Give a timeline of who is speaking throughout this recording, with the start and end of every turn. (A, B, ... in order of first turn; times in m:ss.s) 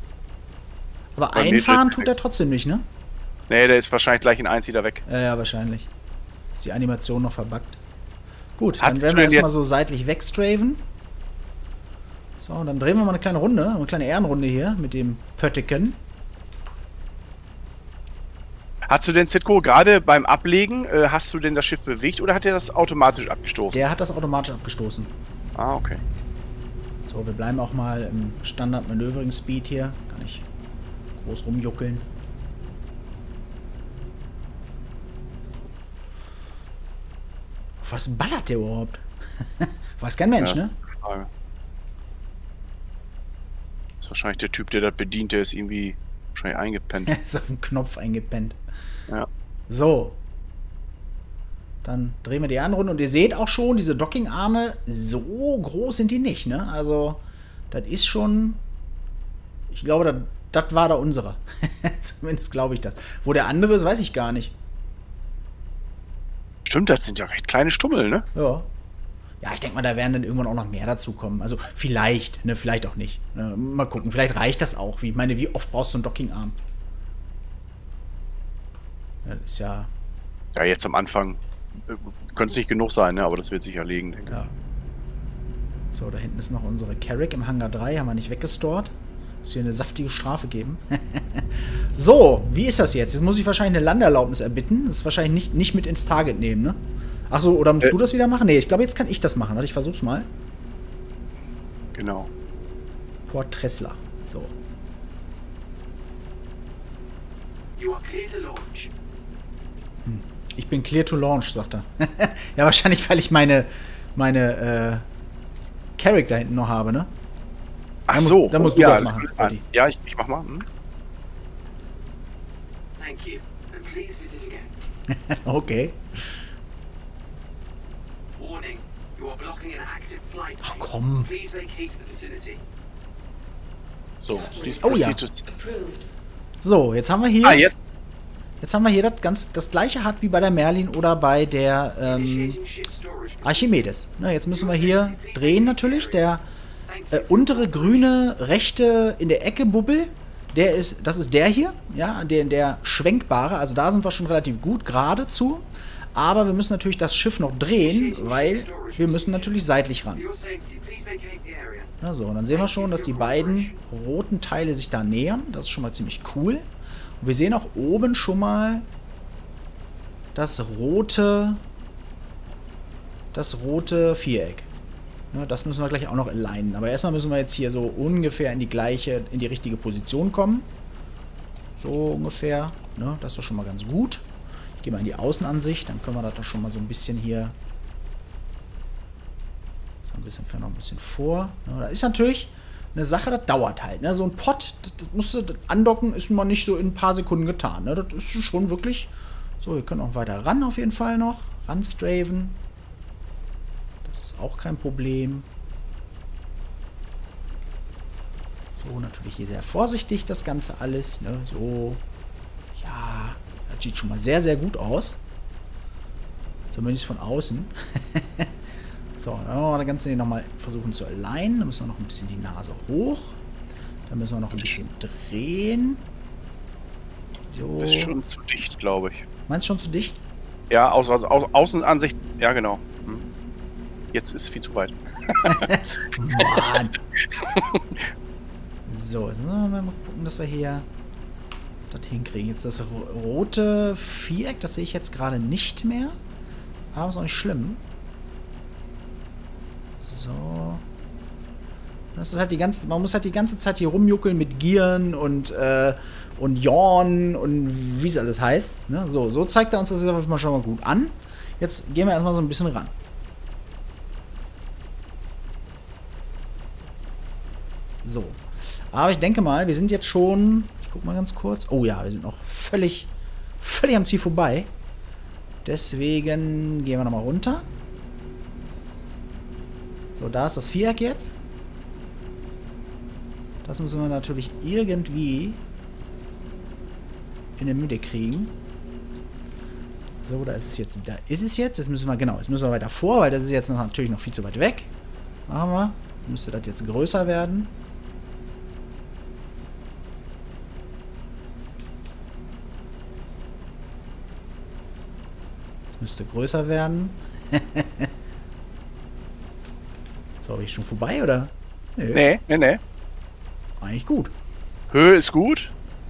0:01.2-0:02.8 A
0:01.3-0:02.1 B
0:03.5-0:05.0 B
0:05.0-0:05.9 A
0:06.6-0:07.8 A
0:08.6-0:10.8 A
0:08.8-0:09.4 B
0:12.4-0:16.0 A
0:18.9-0:23.8 B
0:23.7-0:25.1 A
0:25.6-0:26.0 B
0:27.1-0:30.4 A
0:31.2-0:32.0 A
0:37.8-0:40.7 A
0:40.4-0:41.3 B
0:44.0-0:47.1 B
0:47.0-0:48.6 A
0:49.7-0:50.2 A
0:51.8-0:58.6 A
0:59.7-1:04.5 A
1:06.6-1:08.2 B
1:08.3-1:08.7 A
1:09.4-1:16.6 A
1:19.2-1:19.9 A
1:20.5-1:24.4 B
1:25.9-1:28.9 A
1:29.4-1:40.3 A
1:41.9-1:42.3 B
1:43.3-1:44.5 A
1:47.8-1:48.9 C
1:50.0-1:55.0 A
1:56.0-1:57.1 A
1:58.1-2:00.6 B
1:58.1-1:59.6 A
2:03.0-2:04.7 C
2:05.1-2:06.4 A
2:08.4-2:12.6 C
2:10.6-2:11.3 A
2:14.2-2:15.5 B
2:14.8-2:15.2 A
2:16.6-2:17.6 A
2:17.4-2:17.7 B
2:18.6-2:22.6 A
2:22.0-2:23.8 C
2:23.4-2:26.4 A
2:24.5-2:26.2 C
2:26.9-2:28.1 C
2:27.1-2:40.3 A
2:37.8-2:39.6 C
2:40.1-2:41.9 C
2:42.0-2:46.6 A
2:42.5-2:43.8 C
2:47.2-2:48.8 A
2:50.3-2:51.6 A
2:53.3-2:54.7 A
2:55.3-3:00.7 A
3:01.8-3:04.2 A
3:04.8-3:07.5 A
3:10.1-3:22.6 A
3:24.0-3:25.4 A
3:28.8-3:32.0 A
3:32.8-3:35.2 A
3:36.7-3:38.5 A
3:39.1-3:43.4 A
3:44.1-3:46.0 A
3:47.5-3:48.2 A
3:47.8-3:49.2 B
3:49.5-3:50.2 A
3:50.7-3:53.2 B
3:54.1-3:55.7 B
3:55.4-3:57.0 A
3:56.4-3:56.7 B
3:57.2-3:58.0 B
3:58.9-4:00.9 A
4:01.9-4:06.2 A
4:06.9-4:07.8 A
4:10.0-4:10.8 A
4:12.1-4:22.9 A
4:28.0-4:33.1 A
4:33.6-4:34.7 A
4:35.6-4:37.6 A
4:40.2-4:41.3 A
4:43.6-4:45.6 A
4:47.6-4:48.5 A
4:50.2-4:54.9 A
4:55.5-4:57.7 A
5:05.9-5:08.1 A
5:10.4-5:12.2 A
5:12.1-5:12.8 B
5:13.8-5:14.3 A
5:14.9-5:15.7 B